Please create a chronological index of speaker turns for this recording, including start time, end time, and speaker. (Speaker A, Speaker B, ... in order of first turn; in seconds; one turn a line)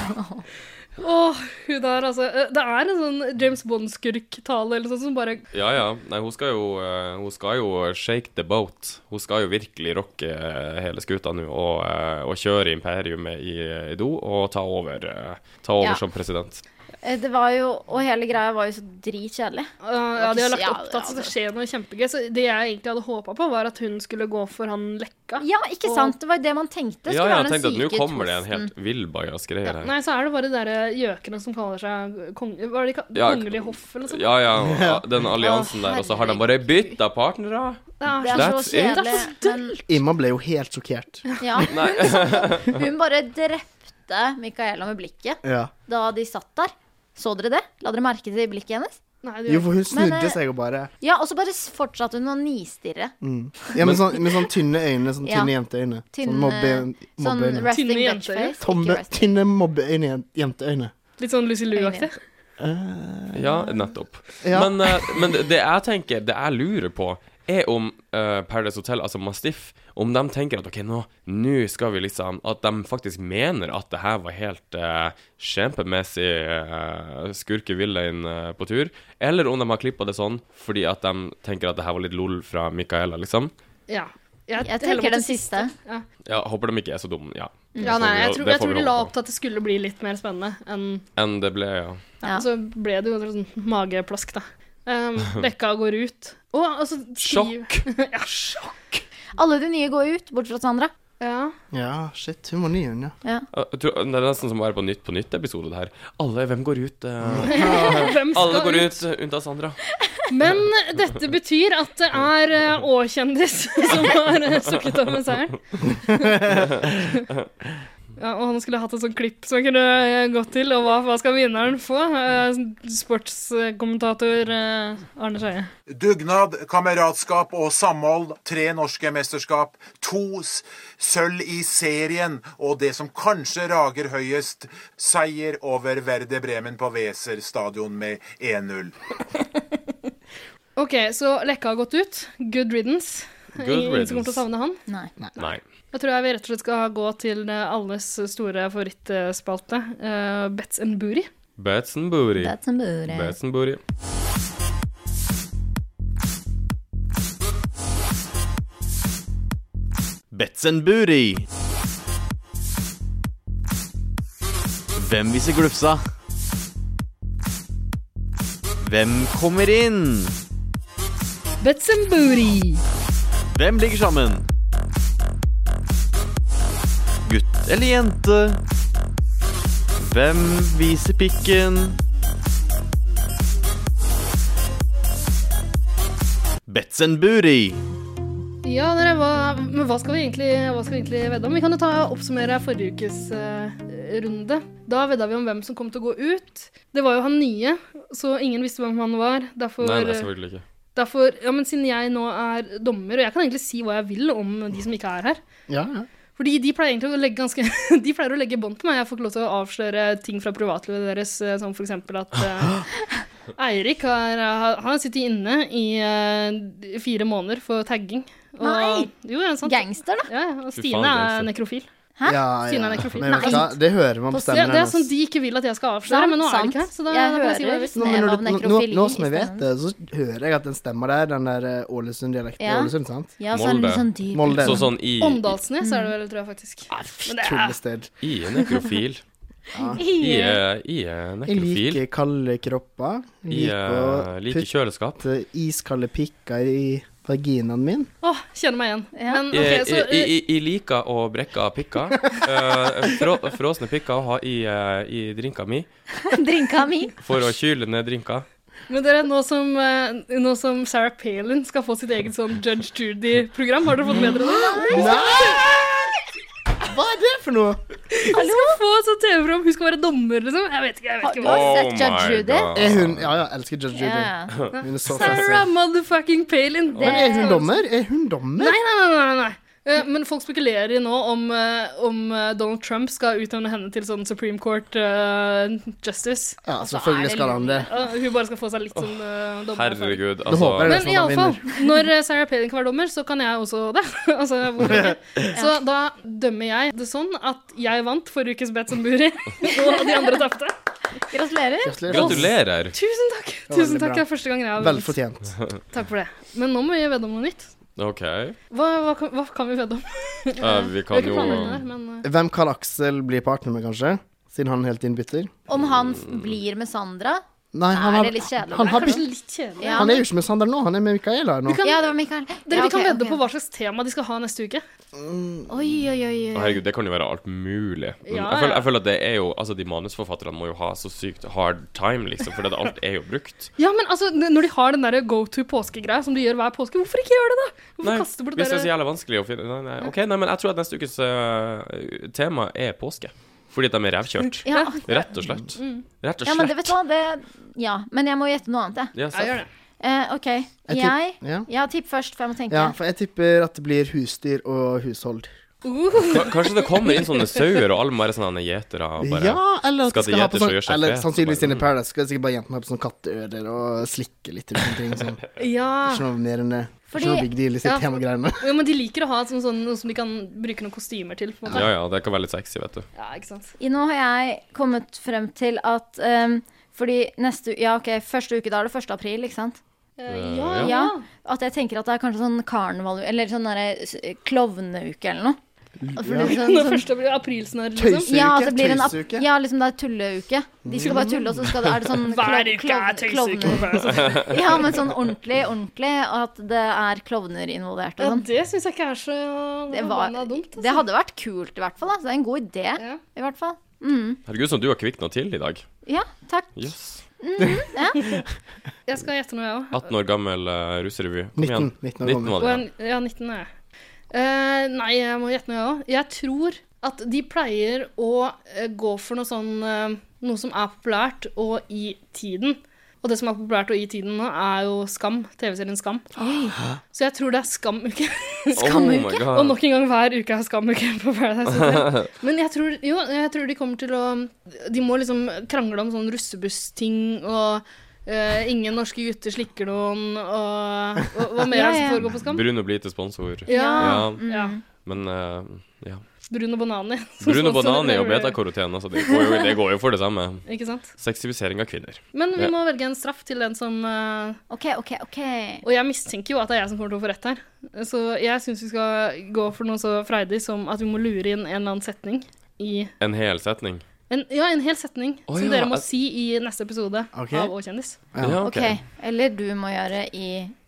Speaker A: 1.0-5.4
Speaker B: 5.5-16.6
Speaker C: 17.0-21.3
Speaker A: 19.8-26.1
Speaker C: 25.4-28.7
Speaker B: 27.1-29.9
Speaker A: 29.8-34.3
Speaker B: 33.1-39.3
Speaker D: 34.6-35.2
Speaker C: 35.4-37.0
Speaker A: 38.0-39.8
Speaker C: 38.2-39.8
Speaker D: 39.9-41.3
Speaker C: 41.4-49.0
Speaker B: 41.7-42.8
Speaker D: 45.4-45.7
Speaker A: 49.2-49.7
Speaker D: 49.5-50.9
Speaker C: 49.9-50.4
Speaker C: 51.0-53.1
Speaker D: 53.2-57.7
Speaker C: 55.2-55.5
Speaker C: 56.1-59.3
Speaker A: 57.7-58.6
Speaker D: 58.6-60.9
Speaker A: 61.2-62.2
Speaker C: 61.7-62.1
Speaker D: 62.6-63.5
Speaker B: 63.3-83.5
Speaker D: 64.4-65.2
Speaker A: 83.9-86.1
Speaker C: 84.6-85.7
Speaker B: 86.2-89.1
Speaker C: 87.7-88.0
Speaker A: 87.8-91.0
Speaker B: 91.2-92.0
Speaker A: 92.3-99.0
Speaker B: 97.2-97.9
Speaker C: 99.4-100.9
Speaker A: 101.2-101.5
Speaker D: 101.7-103.2
Speaker B: 103.5-109.8
Speaker D: 107.2-108.1
Speaker A: 107.5-108.9
Speaker A: 110.3-116.4
Speaker B: 116.5-116.9
Speaker A: 118.2-125.7
Speaker E: 125.9-138.9
Speaker A: 140.8-144.8
Speaker B: 143.6-144.4
Speaker C: 144.9-145.1
Speaker B: 145.4-145.6
Speaker A: 145.4-151.3
Speaker B: 151.6-153.8
Speaker C: 152.4-153.3
Speaker F: 160.3-161.5
Speaker F: 164.9-166.0
Speaker F: 168.8-170.3
Speaker A: 171.6-172.8
Speaker F: 173.5-174.5
Speaker F: 177.2-178.6
Speaker F: 180.0-182.0
Speaker F: 186.7-187.8
Speaker A: 188.6-200.3
Speaker B: 199.8-200.6
Speaker A: 200.9-205.4
Speaker D: 205.7-206.1
Speaker A: 206.4-212.9
Speaker A: 213.6-221.9
Speaker C: 218.6-219.1
Speaker C: 219.6-220.3
Speaker B: 220.7-221.5
Speaker C: 222.2-222.4
Speaker D: 222.3-225.1
Speaker A: 222.7-223.7
Speaker C: 223.2-223.8
Speaker C: 224.3-224.6
Speaker A: 224.5-228.0
Speaker C: 226.1-229.7
Speaker D: 227.9-233.3
Speaker C: 232.6-234.8
Speaker B: 233.5-235.6
Speaker D: 234.3-234.9
Speaker A: 235.2-237.8
Speaker C: 235.8-236.1
Speaker D: 236.9-238.1
Speaker B: 238.2-239.2
Speaker D: 239.7-240.0
Speaker C: 239.9-240.6
Speaker B: 240.2-242.0
Speaker D: 241.5-248.1
Speaker B: 243.5-245.2
Speaker A: 248.2-250.3
Speaker C: 249.2-249.4
Speaker B: 249.5-255.9
Speaker C: 256.2-257.1
Speaker B: 257.2-258.5
Speaker A: 258.9-265.6
Speaker C: 264.4-265.2
Speaker D: 264.9-266.1
Speaker D: 266.8-267.8
Speaker A: 268.1-271.7
Speaker C: 268.3-268.8
Speaker C: 271.2-272.8
Speaker B: 271.4-273.3
Speaker D: 272.8-275.7
Speaker C: 273.9-274.5
Speaker A: 274.8-277.8
Speaker C: 277.0-277.6
Speaker D: 277.0-278.8
Speaker A: 278.6-286.6
Speaker D: 286.6-287.9
Speaker C: 286.8-288.1
Speaker A: 287.9-300.7
Speaker B: 289.7-291.1
Speaker D: 290.5-291.6
Speaker D: 294.8-295.4
Speaker C: 299.6-300.4
Speaker C: 301.3-302.0
Speaker D: 301.8-302.6
Speaker B: 302.1-302.9
Speaker A: 302.1-305.1
Speaker D: 303.7-305.6
Speaker A: 305.9-307.7
Speaker B: 308.0-308.6
Speaker A: 308.7-312.2
Speaker B: 310.6-311.8
Speaker C: 311.2-311.6
Speaker D: 312.2-315.5
Speaker C: 315.7-319.2
Speaker D: 317.7-319.2
Speaker A: 318.8-320.2
Speaker C: 319.8-320.2
Speaker D: 319.8-321.8
Speaker A: 321.7-322.1
Speaker C: 321.8-323.4
Speaker A: 322.6-324.8
Speaker D: 325.1-325.7
Speaker C: 325.7-326.8
Speaker B: 326.5-333.7
Speaker A: 328.3-328.9
Speaker A: 333.8-338.9
Speaker B: 338.0-346.9
Speaker C: 344.7-345.0
Speaker A: 344.7-345.3
Speaker A: 345.8-346.1
Speaker C: 346.4-349.1
Speaker B: 349.1-349.6
Speaker A: 349.3-349.7
Speaker C: 350.0-352.9
Speaker D: 350.9-351.7
Speaker D: 352.7-355.5
Speaker A: 355.8-357.8
Speaker B: 356.3-361.9
Speaker D: 359.2-365.4
Speaker A: 365.6-366.2
Speaker D: 366.0-368.7
Speaker C: 367.1-367.5
Speaker A: 367.9-371.9
Speaker B: 371.7-373.1
Speaker A: 373.2-373.7
Speaker C: 373.8-379.8
Speaker A: 380.2-381.3
Speaker B: 380.3-380.9
Speaker C: 380.8-385.6
Speaker D: 386.0-386.8
Speaker C: 386.2-387.1
Speaker A: 386.4-388.3
Speaker D: 388.0-389.5
Speaker C: 388.3-398.5
Speaker D: 390.9-391.8
Speaker A: 391.1-391.3
Speaker A: 392.1-394.6
Speaker A: 398.2-401.1
Speaker C: 399.9-404.4
Speaker B: 404.5-405.9
Speaker C: 406.1-408.3
Speaker B: 406.8-407.2
Speaker A: 409.1-410.1
Speaker B: 409.9-412.9
Speaker D: 411.6-412.6
Speaker A: 412.6-413.7
Speaker A: 414.3-426.3
Speaker C: 426.4-426.8
Speaker A: 427.1-442.7
Speaker C: 428.8-429.5
Speaker B: 428.8-429.8
Speaker B: 431.8-432.3
Speaker C: 441.7-442.2
Speaker B: 442.2-444.4
Speaker A: 443.7-444.8
Speaker C: 443.7-444.8
Speaker B: 445.0-446.2
Speaker A: 446.5-448.6
Speaker B: 447.4-450.6
Speaker A: 450.7-451.1
Speaker B: 451.2-452.7
Speaker A: 452.3-454.6
Speaker C: 454.7-455.8
Speaker A: 455.8-463.1
Speaker B: 463.2-464.0
Speaker A: 464.3-468.2
Speaker B: 465.5-466.1
Speaker D: 467.3-467.7
Speaker D: 468.3-468.6
Speaker B: 468.4-469.0
Speaker C: 468.6-470.7